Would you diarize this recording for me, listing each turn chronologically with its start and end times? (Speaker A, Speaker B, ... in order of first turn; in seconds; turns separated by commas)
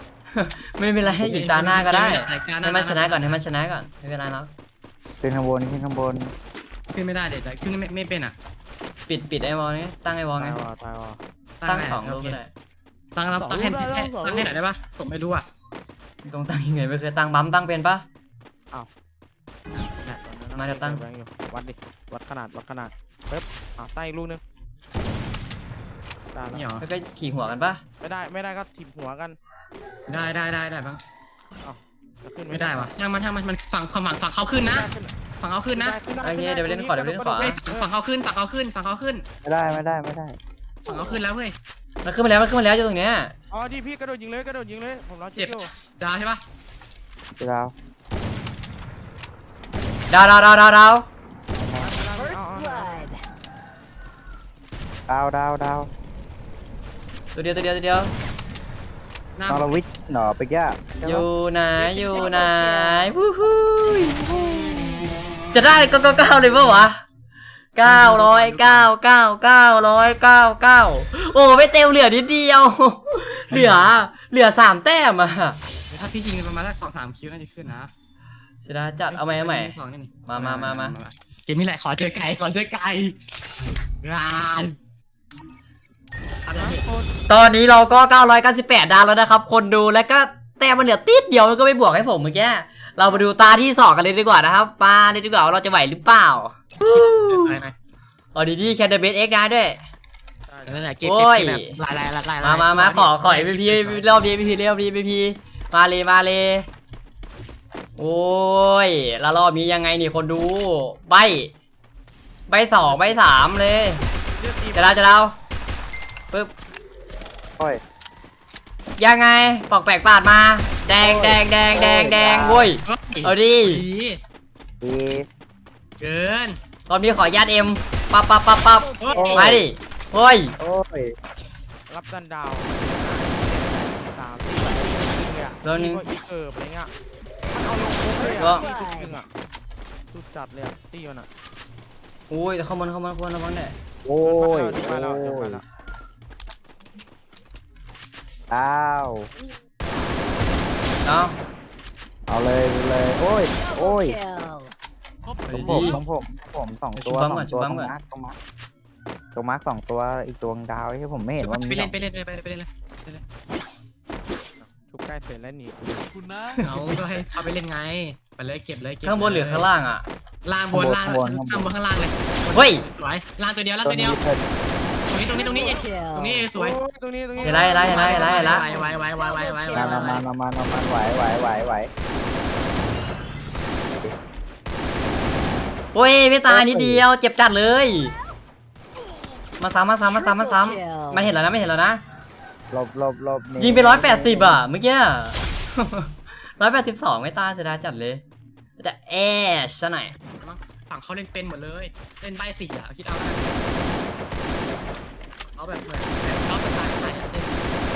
Speaker A: 0.3-4.5, Speaker B: 1.0-3.4, Speaker C: 5.2-6.3, Speaker B: 6.9-8.3, Speaker A: 9.1-10.6, Speaker D: 10.4-11.2, Speaker B: 11.6-12.4, Speaker A: 11.7-12.5, Speaker B: 13.2-15.5, Speaker D: 13.4-14.6, Speaker A: 16.2-18.0, Speaker D: 20.0-24.4, Speaker A: 20.6-21.0, Speaker D: 26.3-26.8, Speaker B: 26.5-26.9, Speaker A: 26.8-27.8, Speaker D: 28.0-29.4, Speaker B: 30.1-31.0, Speaker D: 31.6-32.9, Speaker B: 32.5-36.0, Speaker D: 34.5-35.1, Speaker D: 35.7-37.9, Speaker A: 36.2-37.6, Speaker B: 37.4-39.2, Speaker C: 39.4-40.4, Speaker B: 40.8-41.6, Speaker A: 42.0-43.3, Speaker D: 43.5-45.7, Speaker B: 45.4-46.4, Speaker C: 47.4-47.7, Speaker A: 50.1-51.1, Speaker C: 51.6-52.0, Speaker D: 51.8-53.0, Speaker E: 52.2-53.2, Speaker C: 55.1-55.9, Speaker A: 57.4-58.1, Speaker B: 59.4-59.8, Speaker C: 59.5-61.3, Speaker A: 61.0-67.0, Speaker E: 61.8-62.9, Speaker A: 67.8-75.6, Speaker B: 67.8-68.9, Speaker B: 75.9-77.9, Speaker A: 78.6-79.7, Speaker B: 79.1-83.2, Speaker A: 80.2-81.0, Speaker B: 83.7-84.8, Speaker B: 86.5-86.9, Speaker D: 86.5-87.1, Speaker A: 87.3-97.5, Speaker D: 93.0-93.5, Speaker B: 96.8-97.7, Speaker A: 98.3-99.8, Speaker D: 100.5-101.0, Speaker B: 100.7-104.3, Speaker A: 101.0-101.8, Speaker A: 102.4-106.7, Speaker A: 108.0-111.5, Speaker A: 112.5-114.0, Speaker D: 112.8-113.2, Speaker D: 114.3-115.2, Speaker A: 114.7-115.3, Speaker A: 119.0-123.8, Speaker C: 121.0-122.8, Speaker B: 122.8-124.2, Speaker C: 124.8-125.3, Speaker B: 126.0-126.6, Speaker A: 126.9-130.6, Speaker E: 128.8-129.4, Speaker B: 129.0-129.6, Speaker C: 129.2-129.7, Speaker C: 130.6-131.1, Speaker D: 131.9-136.9, Speaker A: 135.6-136.0, Speaker D: 137.5-139.3, Speaker A: 138.4-138.6, Speaker E: 138.6-139.2, Speaker D: 140.1-141.3, Speaker A: 142.3-143.8, Speaker C: 144.1-145.6, Speaker D: 144.2-145.6, Speaker C: 148.5-149.3, Speaker A: 151.1-151.4, Speaker C: 152.3-154.2, Speaker E: 153.6-154.8, Speaker B: 155.3-156.0, Speaker A: 155.5-156.0, Speaker C: 155.5-158.4, Speaker A: 157.0-157.9, Speaker C: 159.3-161.9, Speaker B: 161.4-163.2, Speaker D: 164.6-166.3, Speaker A: 166.6-167.0, Speaker B: 166.6-169.7, Speaker A: 169.0-170.1, Speaker B: 170.4-174.2, Speaker C: 170.7-171.7, Speaker A: 172.5-172.8, Speaker C: 173.8-174.4, Speaker B: 175.1-176.8, Speaker E: 175.3-176.5, Speaker D: 176.5-178.7, Speaker A: 177.4-178.7, Speaker B: 177.4-180.2, Speaker E: 178.7-180.0, Speaker C: 179.7-181.9, Speaker A: 185.9-188.1, Speaker C: 186.5-187.1, Speaker A: 189.6-192.0, Speaker E: 190.2-191.3, Speaker C: 192.7-194.6, Speaker A: 193.6-198.2, Speaker A: 198.8-200.2, Speaker B: 200.4-203.5, Speaker B: 205.5-207.7